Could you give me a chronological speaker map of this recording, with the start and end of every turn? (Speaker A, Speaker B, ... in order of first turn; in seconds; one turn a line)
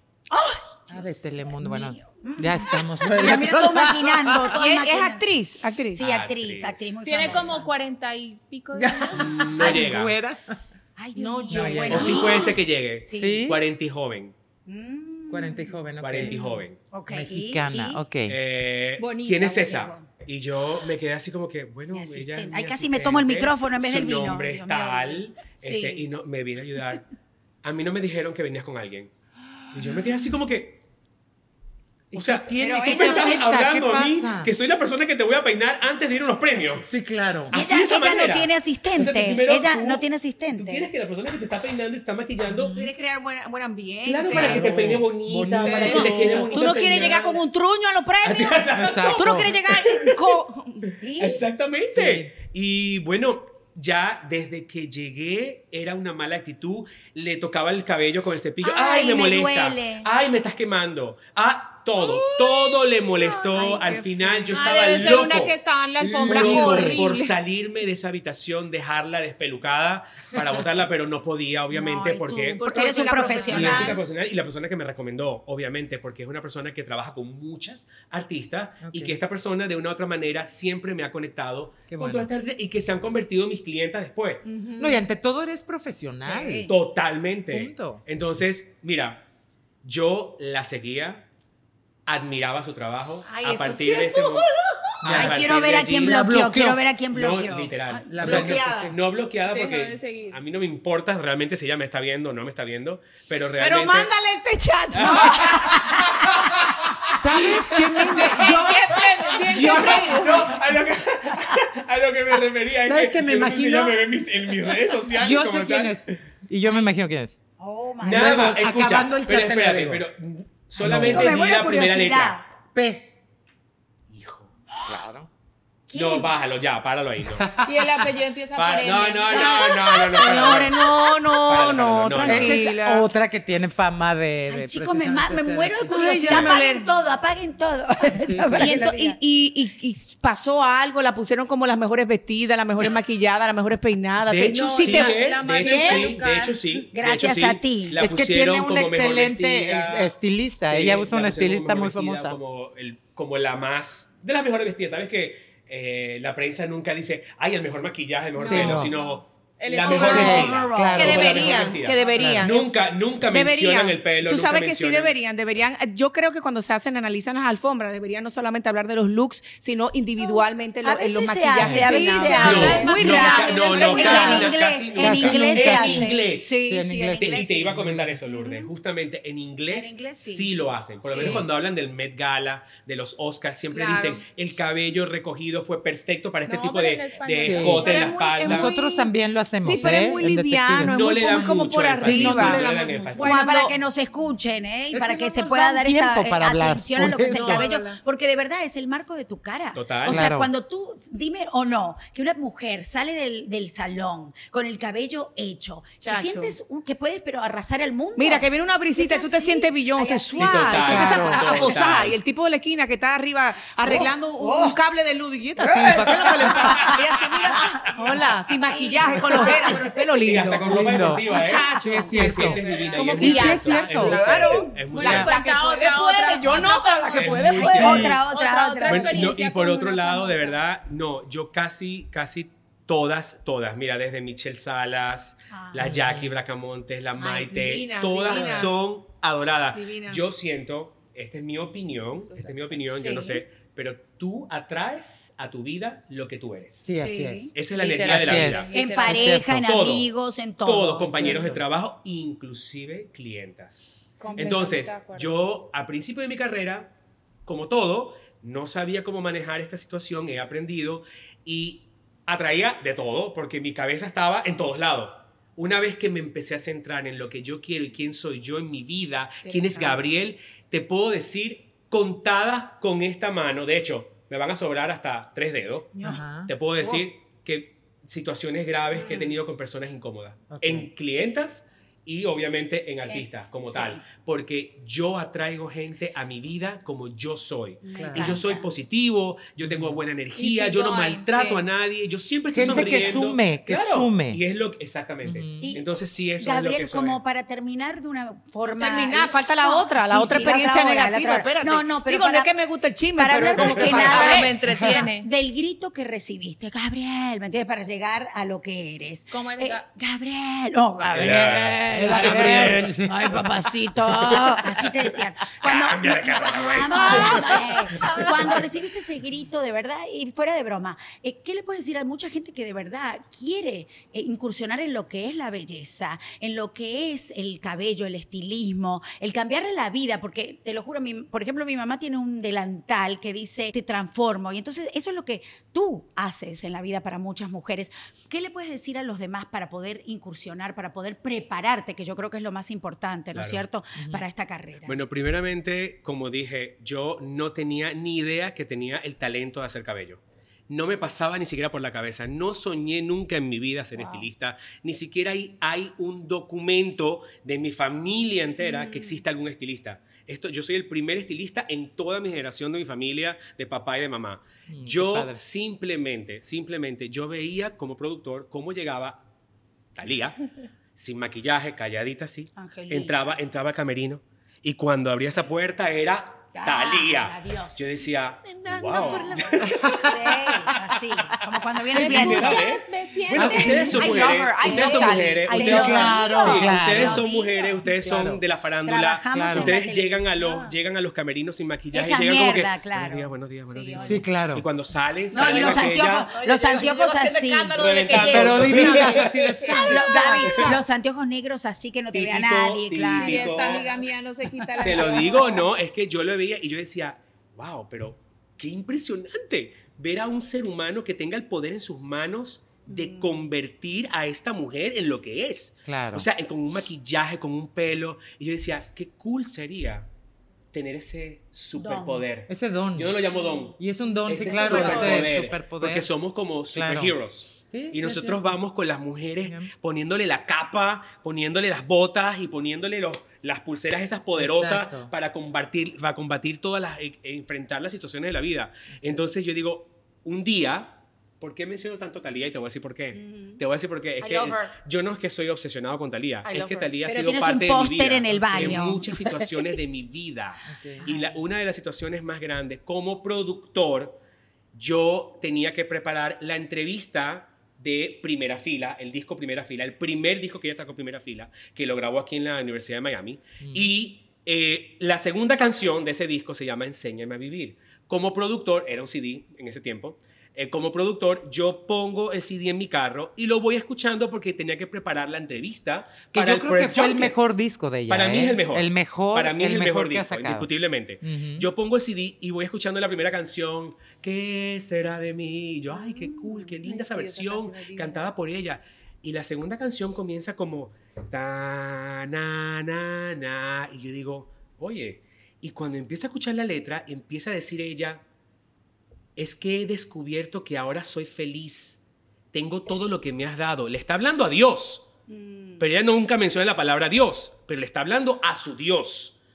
Speaker A: 0.3-5.2
Speaker B: 0.9-4.6
Speaker C: 4.4-6.0
Speaker A: 5.9-7.7
Speaker D: 5.9-7.6
Speaker E: 7.0-9.4
Speaker B: 8.7-10.7
Speaker D: 9.1-10.1
Speaker A: 10.9-13.4
Speaker C: 11.2-12.1
Speaker E: 11.2-12.1
Speaker B: 11.5-12.4
Speaker D: 11.9-14.3
Speaker B: 13.2-13.6
Speaker A: 14.7-18.0
Speaker B: 15.3-16.5
Speaker D: 16.0-16.8
Speaker B: 17.1-18.4
Speaker D: 18.3-27.1
Speaker E: 19.0-19.8
Speaker A: 19.4-20.1
Speaker A: 21.9-26.0
Speaker D: 27.6-29.1
Speaker D: 29.7-30.8
Speaker B: 32.1-34.5
Speaker D: 32.1-36.9
Speaker A: 32.5-33.5
Speaker B: 36.8-37.5
Speaker D: 37.5-42.7
Speaker A: 37.5-40.9
Speaker B: 42.5-42.9
Speaker C: 42.7-44.9
Speaker D: 44.0-47.4
Speaker B: 44.3-46.5
Speaker E: 45.6-46.2
Speaker C: 45.7-48.2
Speaker A: 45.8-47.5
Speaker A: 48.2-48.6
Speaker D: 48.2-50.4
Speaker B: 48.8-49.5
Speaker C: 49.1-50.9
Speaker A: 51.0-51.5
Speaker D: 51.1-72.7
Speaker B: 51.9-52.3
Speaker A: 58.6-60.1
Speaker A: 63.1-63.9
Speaker C: 63.4-65.1
Speaker E: 64.5-67.4
Speaker B: 66.2-67.0
Speaker A: 71.7-74.0
Speaker C: 72.6-74.0
Speaker D: 73.3-84.5
Speaker B: 78.8-79.2
Speaker B: 81.9-82.3
Speaker C: 84.5-85.0
Speaker B: 84.8-86.7
Speaker C: 86.3-86.7
Speaker D: 86.7-89.2
Speaker B: 87.5-88.0
Speaker D: 89.8-91.2
Speaker D: 92.0-94.5
Speaker C: 93.3-94.8
Speaker B: 95.0-95.4
Speaker D: 95.0-96.2
Speaker A: 95.1-98.5
Speaker B: 96.0-96.8
Speaker D: 97.1-104.1
Speaker B: 98.1-98.9
Speaker C: 98.2-98.9
Speaker E: 99.5-100.4
Speaker C: 103.6-106.2
Speaker D: 104.9-107.5
Speaker A: 105.0-105.5
Speaker B: 107.1-108.8
Speaker C: 107.7-108.7
Speaker E: 108.2-110.5
Speaker B: 109.5-110.1
Speaker C: 109.5-110.1
Speaker D: 109.6-116.0
Speaker B: 112.8-114.0
Speaker B: 115.1-117.3
Speaker A: 117.6-118.5
Speaker D: 118.0-122.4
Speaker B: 118.1-120.0
Speaker B: 120.8-121.4
Speaker A: 120.8-122.4
Speaker B: 122.7-123.1
Speaker D: 124.1-124.5
Speaker B: 124.8-125.3
Speaker A: 125.9-126.3
Speaker D: 125.9-127.6
Speaker B: 127.4-127.7
Speaker E: 127.6-130.0
Speaker D: 128.6-130.8
Speaker A: 129.3-130.8
Speaker C: 130.1-133.1
Speaker D: 131.4-132.7
Speaker B: 132.2-136.4
Speaker A: 134.5-139.2
Speaker C: 135.8-136.9
Speaker B: 138.2-138.8
Speaker C: 138.5-146.0
Speaker D: 144.2-150.1
Speaker E: 144.4-146.6
Speaker A: 145.6-146.2
Speaker A: 146.9-148.0
Speaker B: 148.0-152.4
Speaker D: 150.7-165.1
Speaker C: 158.4-158.8
Speaker B: 158.4-158.9
Speaker E: 158.5-160.7
Speaker C: 159.8-162.7
Speaker A: 159.8-161.8
Speaker B: 160.1-161.4
Speaker B: 162.1-162.5
Speaker C: 163.3-174.6
Speaker A: 170.2-178.7
Speaker B: 171.6-172.4
Speaker E: 172.0-174.4
Speaker D: 172.4-188.7
Speaker B: 174.9-178.2
Speaker C: 175.8-177.1
Speaker A: 179.7-181.4
Speaker B: 181.2-181.4
Speaker C: 183.7-184.2
Speaker E: 186.5-188.2
Speaker B: 187.4-187.8
Speaker A: 187.8-188.5
Speaker C: 187.8-193.7
Speaker B: 188.4-191.0
Speaker D: 190.8-193.5
Speaker B: 192.0-192.7
Speaker A: 192.6-211.8
Speaker B: 195.0-197.7
Speaker C: 197.4-197.9
Speaker D: 199.7-200.2
Speaker B: 200.1-200.5
Speaker C: 206.0-206.5
Speaker C: 208.2-228.1
Speaker D: 210.3-212.2
Speaker B: 210.7-211.6
Speaker A: 213.8-214.8
Speaker A: 215.6-219.9
Speaker D: 216.2-217.0
Speaker D: 220.2-225.4
Speaker B: 220.6-225.3
Speaker E: 222.2-230.6
Speaker D: 227.2-228.2
Speaker A: 227.5-229.3
Speaker B: 227.6-228.2
Speaker D: 228.8-246.8
Speaker A: 235.5-235.9
Speaker B: 235.8-236.4
Speaker C: 237.2-238.8
Speaker B: 238.3-238.7
Speaker C: 239.7-240.3
Speaker E: 242.2-242.8
Speaker A: 242.9-243.4
Speaker B: 246.8-247.5
Speaker C: 246.9-247.5
Speaker D: 247.5-250.1
Speaker E: 247.7-249.3
Speaker B: 248.0-249.7
Speaker A: 248.7-251.5
Speaker D: 250.6-256.9
Speaker B: 251.2-251.6
Speaker E: 254.2-255.4
Speaker D: 257.4-297.2
Speaker A: 269.4-270.0
Speaker A: 275.9-276.2
Speaker B: 276.0-276.5
Speaker A: 278.9-279.4
Speaker B: 280.5-280.9
Speaker A: 283.1-284.0
Speaker A: 287.8-288.7
Speaker B: 287.9-288.4
Speaker B: 289.6-290.0
Speaker E: 290.4-291.7
Speaker B: 292.5-294.4
Speaker B: 295.2-295.8
Speaker A: 295.6-302.6
Speaker C: 298.6-304.6
Speaker A: 303.1-345.0
Speaker D: 303.5-304.3
Speaker E: 303.8-305.3
Speaker B: 304.7-305.0
Speaker E: 309.3-309.9
Speaker D: 311.1-313.4
Speaker B: 311.9-313.4
Speaker C: 312.1-312.6
Speaker D: 314.2-314.9
Speaker D: 315.6-318.6
Speaker D: 343.3-343.6
Speaker B: 343.9-344.2
Speaker D: 344.9-369.2
Speaker A: 358.6-359.2
Speaker B: 364.7-365.4
Speaker D: 369.9-370.4
Speaker D: 370.9-380.1
Speaker A: 372.5-373.1
Speaker A: 376.5-378.1
Speaker C: 378.5-379.6
Speaker A: 378.7-382.7
Speaker B: 379.6-380.9
Speaker E: 381.9-384.2
Speaker D: 381.9-396.3
Speaker B: 383.3-384.2
Speaker C: 383.9-386.4
Speaker A: 384.3-388.1
Speaker B: 385.6-387.2
Speaker B: 388.0-388.4
Speaker A: 388.8-390.7
Speaker B: 389.3-389.7
Speaker A: 391.9-394.2
Speaker B: 394.0-394.6
Speaker C: 395.3-400.8
Speaker A: 395.3-398.2
Speaker D: 397.7-399.3
Speaker B: 398.3-400.6
Speaker A: 399.8-403.9
Speaker D: 402.1-403.9
Speaker E: 403.1-405.6
Speaker A: 404.8-405.4
Speaker D: 404.8-420.1
Speaker A: 412.9-413.4
Speaker B: 415.9-416.3
Speaker D: 420.7-454.2
Speaker A: 421.7-422.3
Speaker B: 422.5-423.2
Speaker B: 423.8-426.1
Speaker A: 424.4-425.3
Speaker B: 426.7-427.1
Speaker B: 427.7-428.5
Speaker B: 429.4-429.7
Speaker B: 434.4-435.1
Speaker C: 444.2-444.7
Speaker C: 446.4-446.9
Speaker A: 447.0-449.7
Speaker B: 448.5-448.8
Speaker B: 450.7-451.1
Speaker A: 451.0-451.4
Speaker D: 454.7-477.4
Speaker B: 463.6-463.9
Speaker B: 476.3-480.7
Speaker D: 478.1-498.2
Speaker B: 481.2-481.7
Speaker A: 486.1-486.7
Speaker E: 486.8-488.3
Speaker D: 499.4-502.0
Speaker D: 502.5-505.1
Speaker A: 505.3-505.8
Speaker D: 505.8-509.4